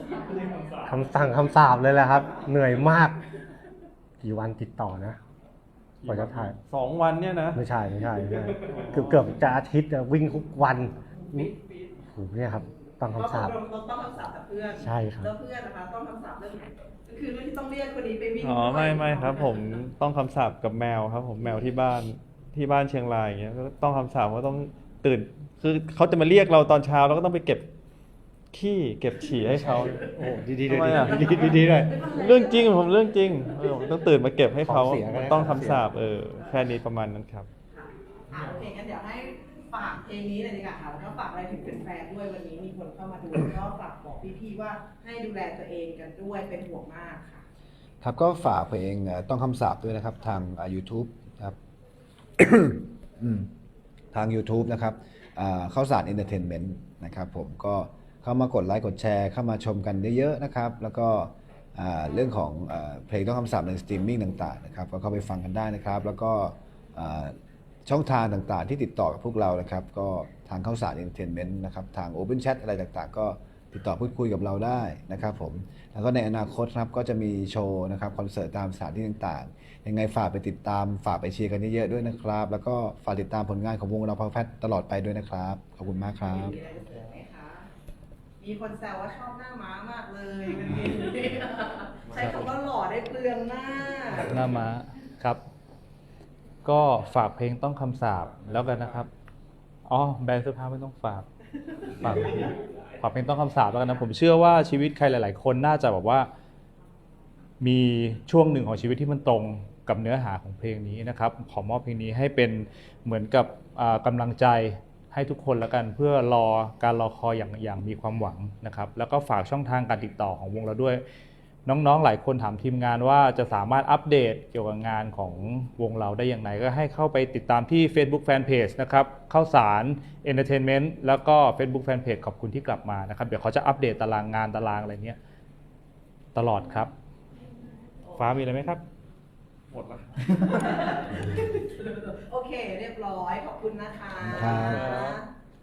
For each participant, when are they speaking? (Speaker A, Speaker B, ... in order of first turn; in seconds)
Speaker A: 0.8-3.2, 4.2-5.2, 6.1-6.6, 7.5-11.5, 12.0-13.6, 14.8-15.3, 29.5-32.0, 34.6-36.0
Speaker B: 6.0-7.6, 8.7-9.3, 18.4-27.7, 28.5-30.1, 30.6-31.4, 32.0-37.5, 139.7-140.8, 144.6-145.2
Speaker C: 11.3-12.0, 13.2-19.8, 31.1-32.7, 37.7-47.4, 86.2-87.7, 88.4-94.4, 101.7-102.1, 138.1-138.3, 140.4-145.3
Speaker D: 48.0-51.6, 52.4-53.5, 54.1-67.3, 67.9-86.6, 144.2-145.0
Speaker E: 92.1-92.4, 94.2-95.4, 96.6-99.1, 99.9-101.2, 102.0-106.3, 107.6-121.0, 121.7-135.2, 136.3-136.9, 138.2-138.8